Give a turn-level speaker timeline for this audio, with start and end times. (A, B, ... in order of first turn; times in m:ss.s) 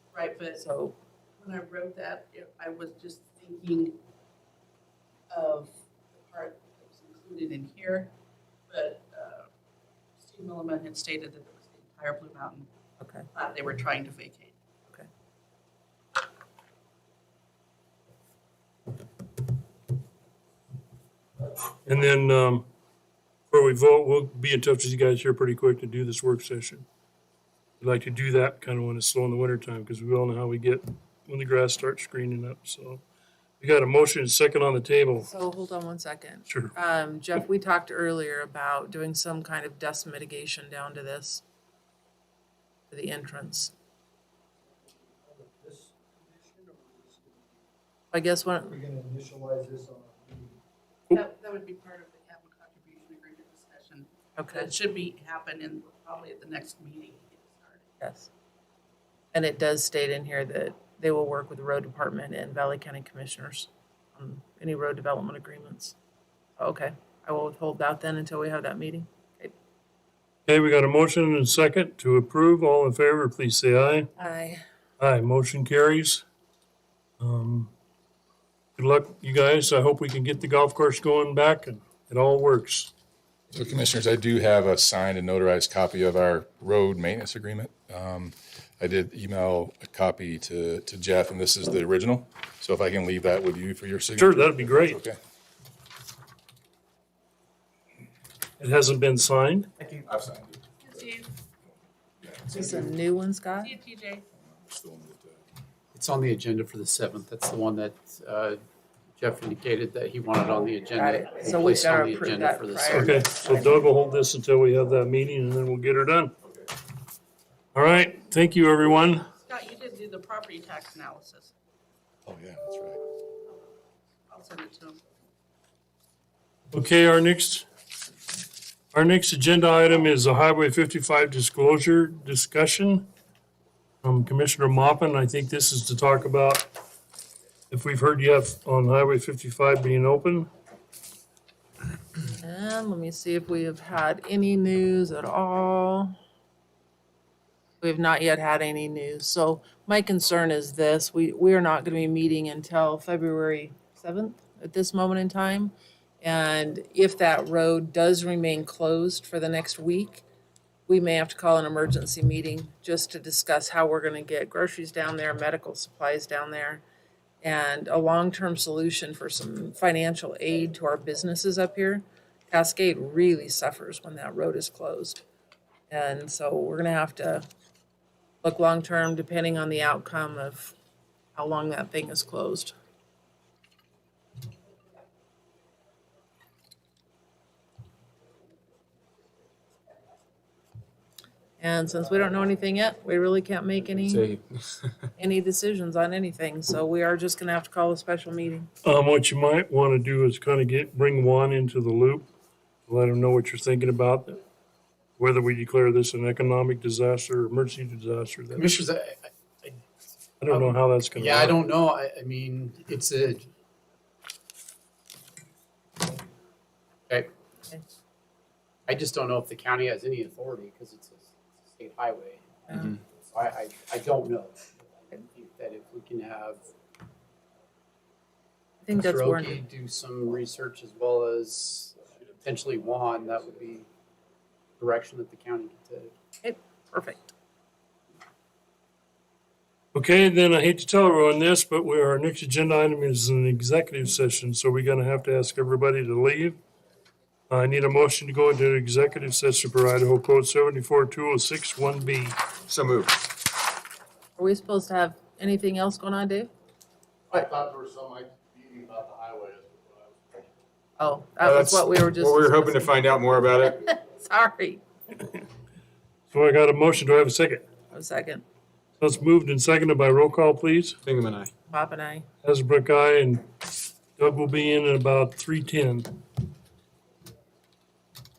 0:00.1-0:00.6 A
0:00.6-0:01.0 B
0:01.4-0:04.0 A
0:05.3-0:08.1 A
0:08.7-0:09.5 A
0:10.2-0:12.7 A
0:13.0-0:13.3 B
0:13.3-0:14.5 A
0:21.8-0:22.7 C
0:23.5-0:26.8 C
0:27.8-0:33.0 C
0:33.6-0:35.3 C
0:35.3-0:41.4 B
0:36.5-0:36.7 C
0:42.9-0:43.7 B
0:44.8-0:47.5 D
0:48.1-0:48.8 B
0:48.7-0:50.6 D
0:51.1-0:57.9 A
0:54.4-0:54.7 B
0:58.0-0:58.3 B
0:59.3-1:06.0 B
1:06.6-1:09.5 B
1:10.5-1:14.1 C
1:14.2-1:14.6 B
1:15.0-1:16.2 C
1:17.2-1:17.7 C
1:18.8-1:22.9 C
1:23.5-1:35.2 E
1:34.2-1:35.0 C
1:38.6-1:39.7 C
1:39.9-1:40.6 E
1:40.8-1:41.3 A
1:42.2-1:42.9 E
1:42.5-1:43.8 B
1:43.6-1:44.2 A
1:44.4-1:45.4 E
1:45.9-1:48.6 F
1:49.2-1:53.3 F
1:50.5-1:53.8 B
1:53.0-1:56.4 C
1:57.8-1:59.3 C
1:59.4-2:01.5 A
2:02.3-2:03.0 E
2:04.3-2:05.0 A
2:06.7-2:07.7 C
2:08.9-2:13.1 C
2:14.0-2:16.7 C
2:17.7-2:20.5 C
2:22.3-2:26.2 B
2:27.8-2:40.3 B
2:40.9-2:46.8 B
2:47.4-2:55.2 B
2:55.9-2:57.5 B
2:58.4-3:00.8 B
3:01.4-3:02.8 B
3:11.6-3:14.3 B
3:14.0-3:14.4 G
3:15.2-3:18.7 B
3:18.8-3:22.3 C
3:22.9-3:24.4 C
3:25.2-3:28.8 C
3:28.6-3:29.8 F
3:30.4-3:31.6 C
3:30.5-3:33.5 F
3:38.9-3:44.6 F
3:45.1-3:46.7 F
3:48.8-3:49.6 B
3:49.0-3:53.9 F
3:54.8-3:56.1 F
3:56.4-3:57.3 B
3:59.9-4:06.6 C
4:07.5-4:12.4 C
4:12.7-4:13.3 G
4:14.4-4:16.5 B
4:17.3-4:19.3 G
4:21.0-4:24.8 B
4:21.4-4:23.8 G
4:26.3-4:27.7 C
4:27.9-4:28.4 B
4:29.0-4:31.0 C
4:31.1-4:31.5 G
4:31.7-4:32.3 B
4:32.4-4:33.5 C
4:34.2-4:36.2 C